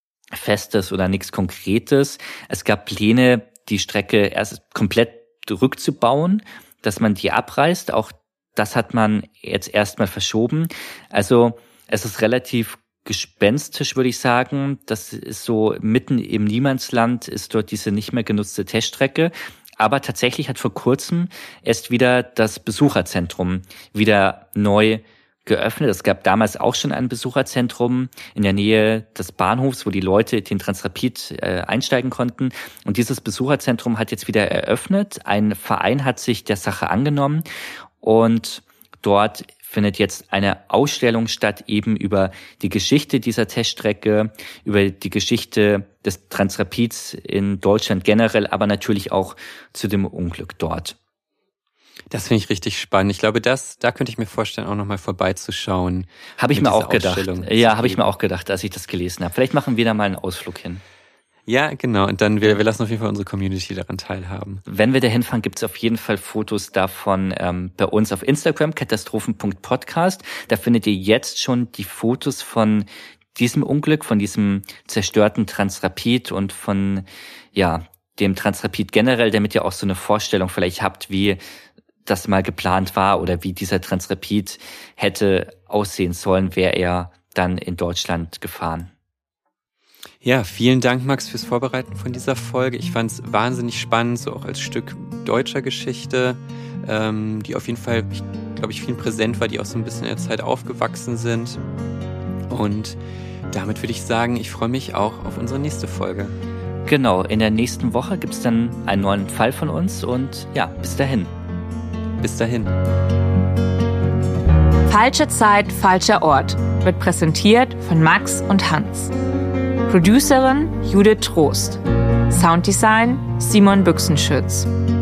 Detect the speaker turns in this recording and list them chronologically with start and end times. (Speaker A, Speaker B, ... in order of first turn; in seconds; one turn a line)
Speaker A: 0.3-37.4
Speaker A: 38.0-51.0
Speaker B: 52.1-58.1
Speaker A: 56.4-60.8
Speaker B: 61.5-64.6
Speaker A: 64.7-81.4
Speaker A: 82.0-88.9
Speaker B: 90.2-101.6
Speaker B: 102.5-103.0
Speaker B: 103.5-106.3
Speaker A: 106.9-111.3
Speaker B: 112.2-112.7
Speaker C: 114.9-119.1
Speaker C: 119.9-124.7